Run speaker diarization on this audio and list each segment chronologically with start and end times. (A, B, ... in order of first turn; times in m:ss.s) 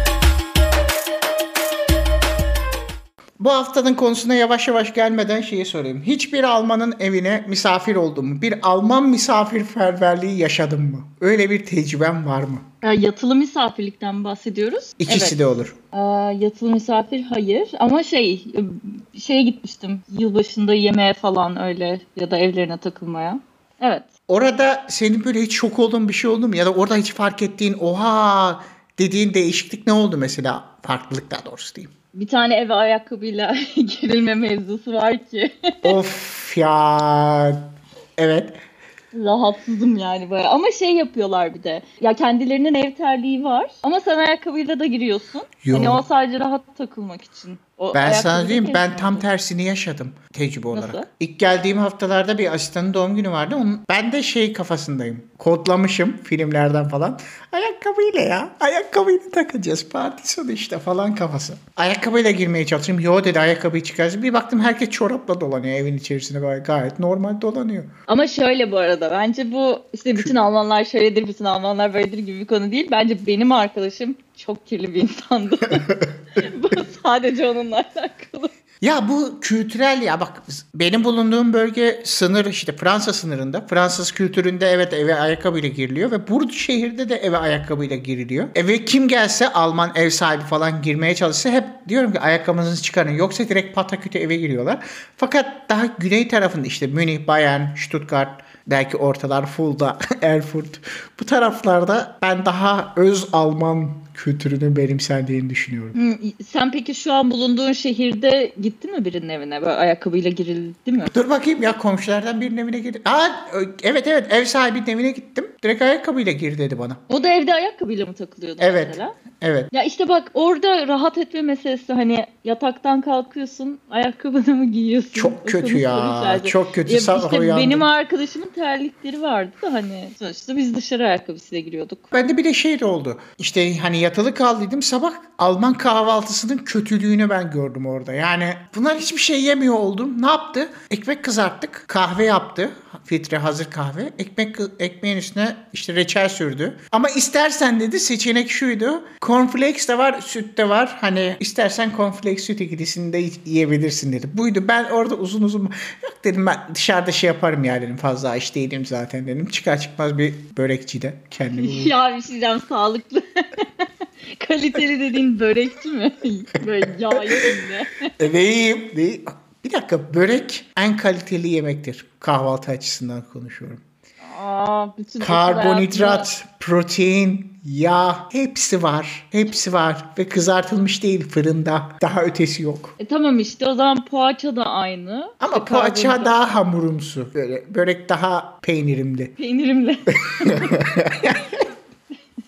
0:03.4-0:12.6 A
0:12.8-0:15.4 B
0:15.0-0:15.7 A
0:15.9-0:24.1 B
0:24.3-0:31.9 A
0:32.1-0:36.0 B
0:35.8-0:37.6 A
0:38.2-0:38.6 A
0:39.1-0:49.2 B
0:45.6-0:46.0 A
0:47.9-1:07.9 A
0:50.7-0:51.0 B
1:08.1-1:18.5 B
1:18.8-1:46.0 A
1:45.9-1:51.1 B
1:51.1-1:57.0 A
1:57.1-1:59.2 B
1:58.6-1:59.7 A
1:59.7-2:12.1 B
2:05.1-2:07.8 A
2:12.1-2:41.9 A
2:41.6-2:48.1 B
2:46.9-2:47.5 A
2:48.2-2:53.8 A
2:54.2-2:56.3 B
2:55.2-3:02.9 A
3:03.0-3:06.4 B
3:05.4-3:09.3 A
3:09.4-3:10.8 B
3:10.3-3:11.5 A